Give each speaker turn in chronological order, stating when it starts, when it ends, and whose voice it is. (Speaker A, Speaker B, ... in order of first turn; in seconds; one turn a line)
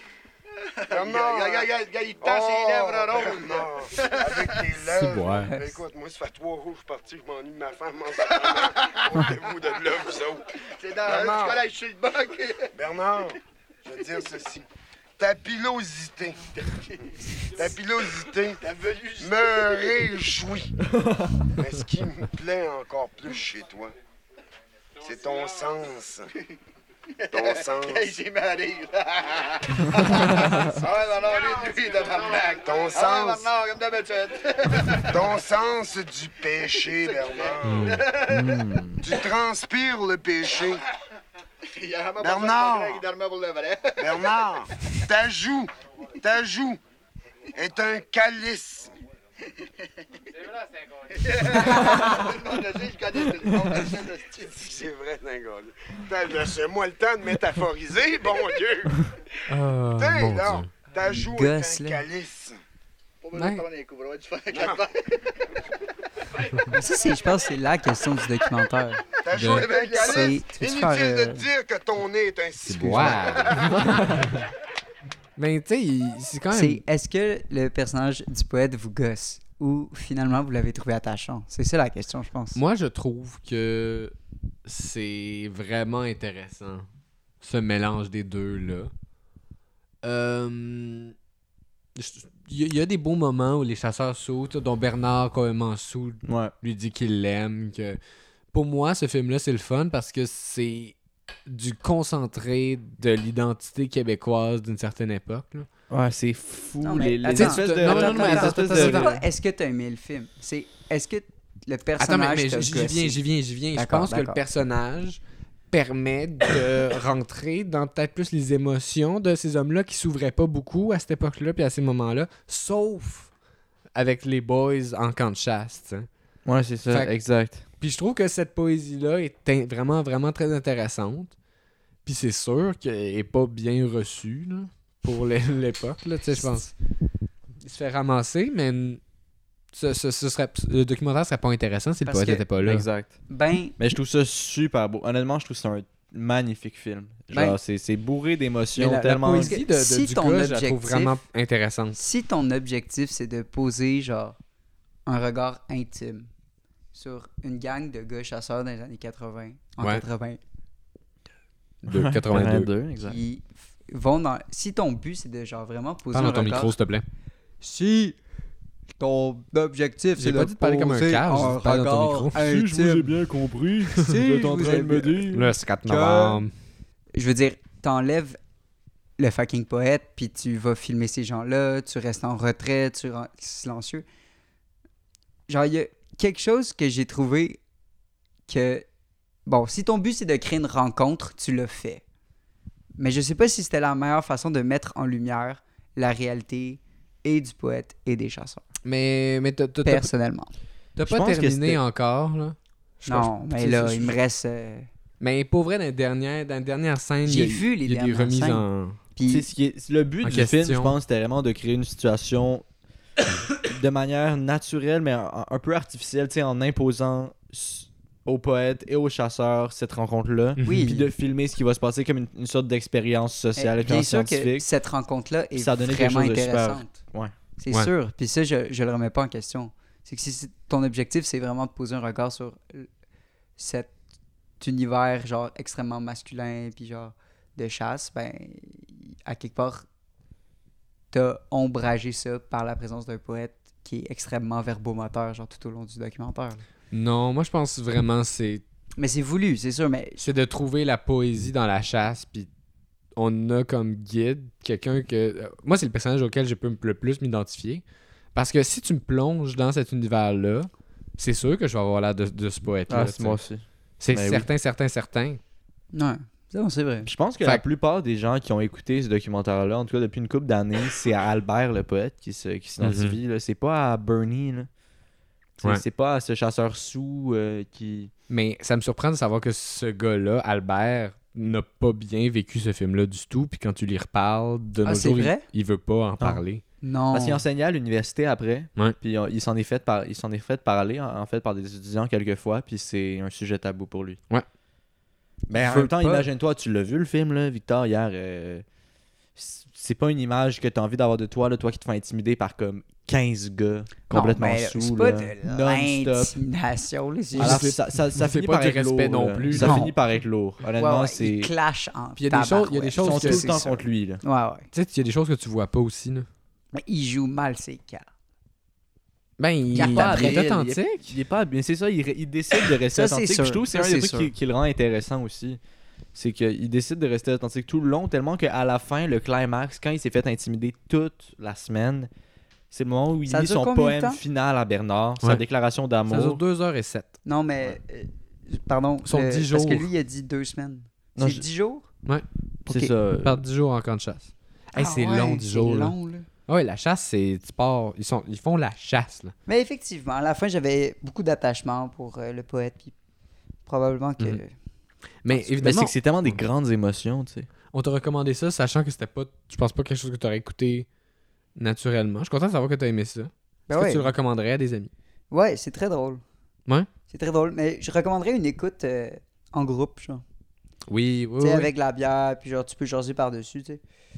Speaker A: 0.8-4.7
Speaker B: 0.9-10.4
Speaker C: 4.8-5.5
Speaker A: 8.3-10.0
Speaker A: 10.7-12.7
Speaker B: 11.0-11.6
Speaker B: 12.7-14.6
Speaker B: 15.2-16.5
Speaker A: 16.7-20.3
Speaker B: 17.5-18.6
Speaker B: 19.2-20.7
Speaker B: 21.5-23.9
Speaker B: 25.0-26.3
Speaker A: 27.2-35.4
Speaker B: 27.3-28.2
Speaker D: 30.1-30.8
Speaker B: 32.5-33.5
Speaker B: 35.1-38.0
Speaker A: 36.6-38.6
Speaker C: 37.6-38.0
Speaker D: 38.3-39.0
Speaker B: 39.0-40.8
Speaker A: 41.7-44.5
Speaker B: 42.2-43.1
Speaker B: 44.0-46.8
Speaker B: 47.5-48.9
Speaker A: 51.1-54.7
Speaker B: 54.5-59.1
Speaker C: 59.5-60.7
Speaker B: 60.0-62.6
Speaker E: 61.0-62.0
Speaker A: 63.2-65.4
Speaker C: 63.3-63.6
Speaker B: 64.5-64.8
Speaker E: 66.7-69.0
Speaker B: 69.2-73.9
Speaker A: 69.2-70.4
Speaker C: 69.3-69.7
Speaker E: 69.9-71.5
Speaker C: 72.7-74.3
Speaker A: 73.1-73.4
Speaker C: 75.4-76.8
Speaker E: 76.5-82.6
Speaker C: 82.5-84.1
Speaker C: 84.7-86.8
Speaker C: 87.4-88.9
Speaker C: 90.0-91.1
Speaker C: 92.0-98.0
Speaker D: 96.2-96.5
Speaker C: 98.5-100.9
Speaker C: 101.5-105.7
Speaker D: 105.9-109.2
Speaker E: 106.8-113.2
Speaker C: 107.3-109.2
Speaker C: 112.0-115.2
Speaker E: 113.7-114.4
Speaker C: 115.7-123.3
Speaker C: 123.9-126.1
Speaker D: 126.4-127.6
Speaker C: 127.8-131.3
Speaker C: 132.0-136.7
Speaker C: 137.6-139.0
Speaker C: 139.7-142.8
Speaker E: 142.1-142.4
Speaker D: 142.6-143.2
Speaker E: 143.3-143.8
Speaker D: 143.8-149.6
Speaker C: 148.8-152.0
Speaker E: 149.3-151.2
Speaker E: 151.9-154.4
Speaker E: 155.1-156.3
Speaker E: 156.9-160.4
Speaker C: 161.8-162.7
Speaker D: 161.9-163.2
Speaker E: 163.0-166.7
Speaker C: 166.1-167.0
Speaker E: 167.6-168.2
Speaker E: 169.0-173.1
Speaker C: 170.2-172.3
Speaker D: 172.3-175.5
Speaker E: 174.0-175.3
Speaker C: 175.3-176.5
Speaker E: 175.8-176.4
Speaker E: 177.1-178.4
Speaker E: 179.2-184.1
Speaker E: 185.5-187.6
Speaker E: 188.5-188.8
Speaker E: 189.4-192.0
Speaker E: 193.0-198.6
Speaker C: 198.8-200.1
Speaker E: 199.8-200.5
Speaker C: 200.9-204.0
Speaker D: 201.0-201.8
Speaker E: 203.1-204.9
Speaker C: 205.2-209.0
Speaker E: 207.2-209.4
Speaker D: 209.3-212.6
Speaker C: 210.2-210.9
Speaker D: 213.6-224.7
Speaker C: 220.6-220.8
Speaker E: 220.6-221.1
Speaker E: 223.6-227.0
Speaker D: 225.6-227.3
Speaker E: 227.6-232.9
Speaker E: 233.6-233.9
Speaker E: 234.6-239.8
Speaker E: 241.1-246.6
Speaker C: 246.9-248.6
Speaker E: 249.0-250.2
Speaker C: 250.2-252.5
Speaker C: 253.2-257.8
Speaker C: 258.3-263.4
Speaker D: 262.9-264.5
Speaker C: 264.0-265.4
Speaker E: 265.9-267.1
Speaker D: 267.1-274.7
Speaker C: 272.8-273.2
Speaker D: 275.6-278.1
Speaker C: 278.3-286.6
Speaker E: 284.8-285.4
Speaker E: 286.8-287.4
Speaker D: 287.1-294.2
Speaker D: 295.5-298.6
Speaker E: 295.6-296.3
Speaker D: 299.4-306.4
Speaker E: 304.1-307.6
Speaker C: 307.3-309.8
Speaker D: 307.4-311.5
Speaker E: 309.5-309.9
Speaker E: 310.8-314.6
Speaker C: 312.2-313.5
Speaker D: 313.0-314.2
Speaker C: 314.7-316.2
Speaker E: 316.7-318.0
Speaker C: 319.4-321.1
Speaker E: 319.7-320.4
Speaker D: 319.8-325.6
Speaker E: 322.9-324.3
Speaker D: 326.1-332.1
Speaker D: 332.7-336.4
Speaker E: 333.3-334.2
Speaker C: 336.1-337.2
Speaker E: 337.2-341.9
Speaker C: 339.1-339.9
Speaker D: 341.1-341.4
Speaker D: 342.6-343.4
Speaker C: 343.2-345.9
Speaker E: 344.8-346.3
Speaker C: 346.5-349.3
Speaker E: 349.5-352.9
Speaker E: 353.6-354.5
Speaker C: 355.2-356.3
Speaker D: 355.3-357.5
Speaker C: 357.7-360.9
Speaker C: 361.6-364.9
Speaker E: 363.7-364.1
Speaker E: 365.3-366.2
Speaker E: 367.1-370.2
Speaker C: 370.9-371.7
Speaker E: 371.4-373.8